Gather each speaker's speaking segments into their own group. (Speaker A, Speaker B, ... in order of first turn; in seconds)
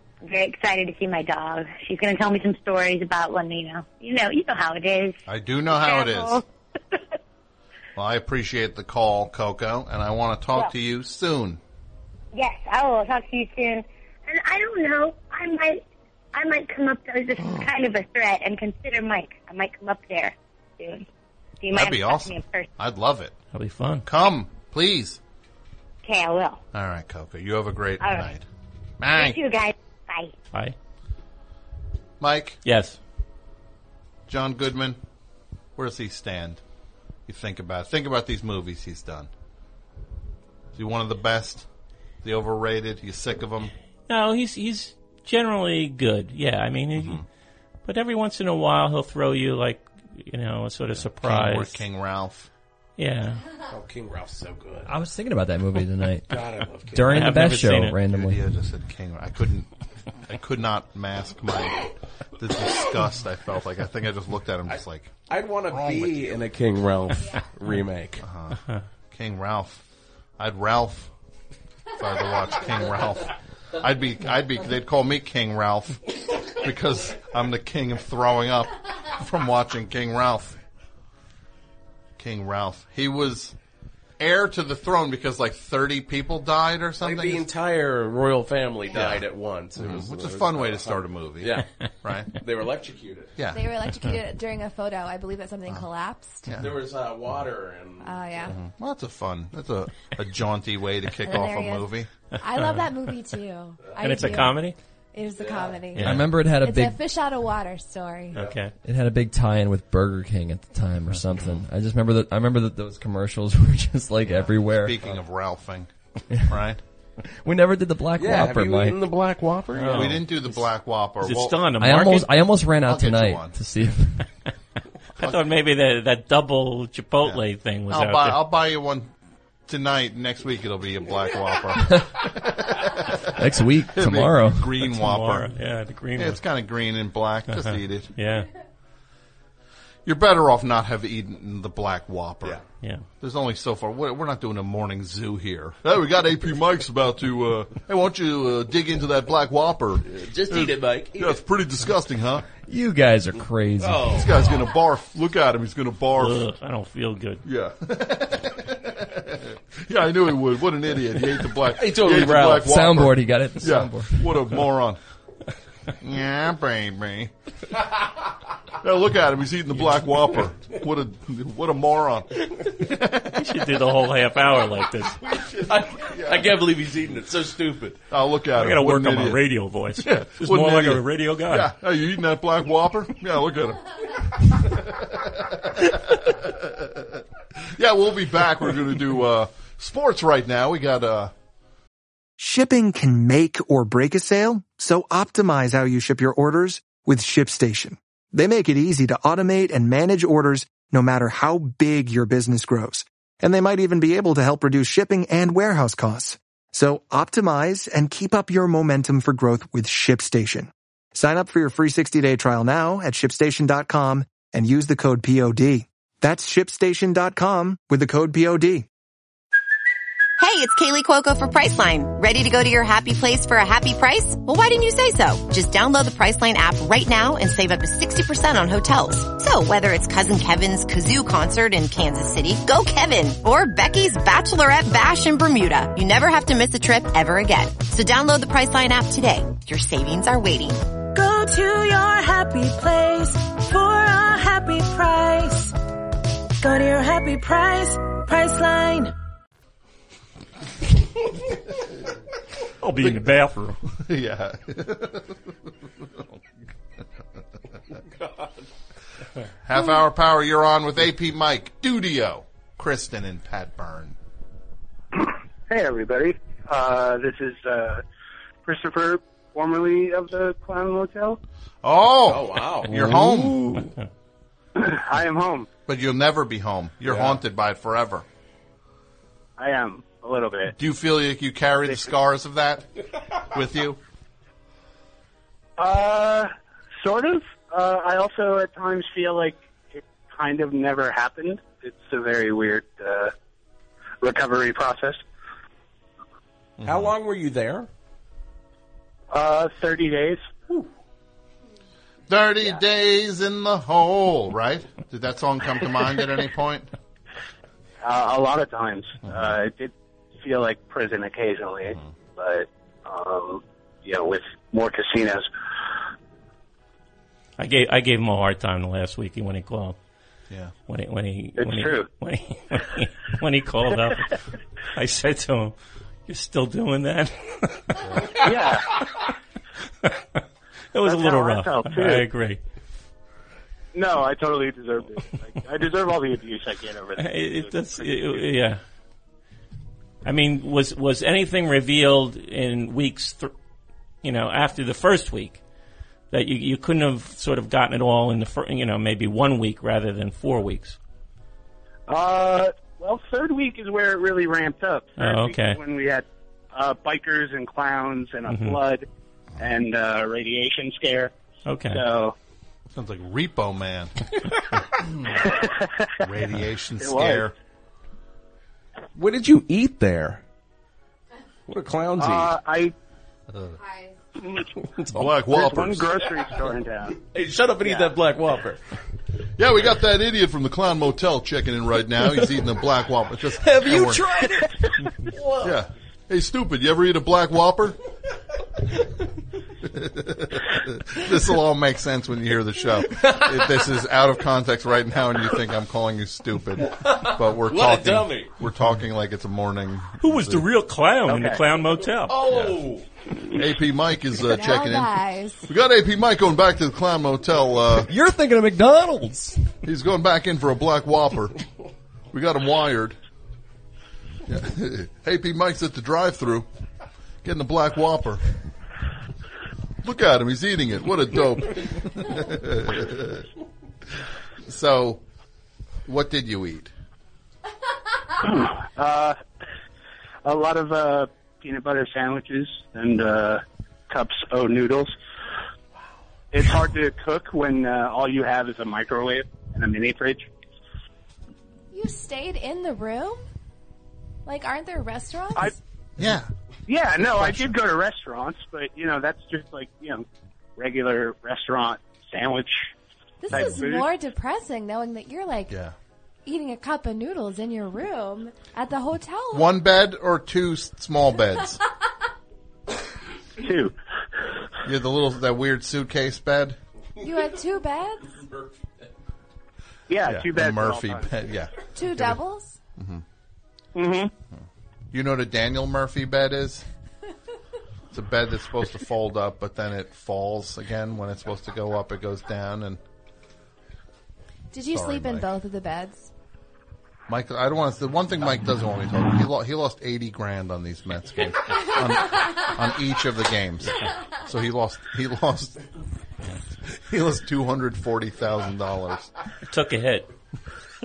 Speaker A: 0.2-5.2, 5.8-6.4, 12.3-15.8, 16.3-21.1, 21.6-22.7, 26.0-26.6, 28.0-28.3, 29.1-30.3
Speaker B: 5.3-6.4, 8.0-11.6, 21.7-23.3, 24.0-25.2, 26.7-28.4, 29.0-29.4, 32.2-32.6, 34.3-35.0, 35.8-36.6, 37.3-39.3, 40.7-41.6, 42.2-43.7, 46.9-47.2, 51.0-52.5, 58.1-66.3, 68.2-69.8, 70.4-71.1, 72.0-80.6, 82.2-83.5, 84.2-87.5, 88.9-92.4, 93.4-94.1, 96.4-96.8, 98.5-102.1, 114.8-115.9, 116.4-116.8, 119.9-121.7, 122.8-123.6, 127.2-129.1, 129.7-135.5, 136.2-138.1, 140.0-142.6, 143.2-152.5, 154.1-156.4, 157.4-165.0, 166.0-167.3, 168.8-173.6, 176.1-176.6, 178.1-179.4, 180.0-191.3, 253.0-253.3, 253.9-255.5, 259.6-264.1, 271.8-273.9, 275.9-278.2, 280.8-284.0, 296.8-297.1, 302.3-306.9, 328.0-328.3, 362.9-364.4, 365.0-365.3, 366.2-367.5, 373.5-373.8, 375.1-376.1, 379.6-384.3, 385.6-388.0, 389.8-400.6, 402.5-402.8, 403.4-408.1, 409.8-411.6, 412.3-413.1, 414.4-416.7, 417.4-418.5, 420.0-423.5, 424.6-425.2, 426.1-426.9, 446.2-446.5, 447.3-447.7, 453.5-453.8, 455.7-455.9, 459.5-461.8, 464.8-466.8, 470.2-472.4, 473.0-473.2, 474.5-476.9, 478.1-483.0, 484.9-485.5, 487.3-495.8, 496.9-499.3
Speaker C: 23.5-24.1, 32.6-33.0, 44.1-47.2, 47.8-51.8, 53.0-53.4, 57.1-58.0, 102.4-103.2, 104.0-104.8, 105.9-106.3, 108.3-108.7, 119.8-120.6, 121.2-122.3, 125.2-128.4, 134.8-136.4, 137.5-138.5, 156.2-157.4, 173.3-175.3, 178.6-181.7, 252.8-253.8, 317.6-320.0, 320.9-325.7, 326.3-328.5, 330.9-332.6, 337.2-338.8, 340.2-343.5, 344.2-345.6, 346.3-351.0, 355.2-355.8, 358.5-358.8, 361.6-362.0, 400.2-402.5, 499.7-500.3
Speaker D: 53.7-55.0, 56.3-57.4, 64.7-68.2, 87.0-93.4, 96.5-98.5, 103.8-104.2, 105.4-105.9, 118.1-120.2, 150.0-151.4, 153.8-154.7, 161.6-162.9, 175.3-178.0, 272.2-273.0, 277.1-277.4, 296.8-297.9, 369.1-370.4, 371.7-372.6, 377.1-378.8, 385.3-385.8, 397.0-398.5, 402.2-403.1, 468.5-469.0
Speaker E: 54.9-58.4, 106.0-107.0, 108.8-115.0, 117.3-119.0, 121.8-124.3, 133.3-134.8, 152.6-154.1, 162.6-164.4, 272.9-273.9, 383.6-384.8, 408.1-409.7
Speaker F: 93.5-96.5, 98.0-98.5, 101.2-108.5, 404.5-405.7, 441.9-443.4, 444.4-445.8, 453.4-455.8, 456.4-459.7, 467.2-468.3, 471.9-472.8, 484.7-486.3
Speaker G: 192.4-218.9
Speaker H: 220.4-240.8
Speaker I: 241.1-245.8, 246.6-249.1
Speaker J: 265.2-268.0, 268.6-271.4, 274.8-275.7, 279.6-280.7, 285.8-286.5, 287.0-293.3, 294.2-295.2, 299.3-300.8, 308.0-315.5, 321.6-322.1, 328.3-329.0, 331.0-332.2, 333.9-338.5, 352.1-359.0, 359.6-361.3, 361.9-362.3, 365.5-366.1, 367.0-367.5, 372.2-372.9, 374.4-374.7, 375.5-377.2, 377.8-378.1, 401.3-401.6, 428.4-429.4, 430.4-435.1, 436.5-440.5, 446.9-450.2, 450.8-452.9, 453.5-454.1, 463.6-463.9, 470.1-471.3, 473.9-474.3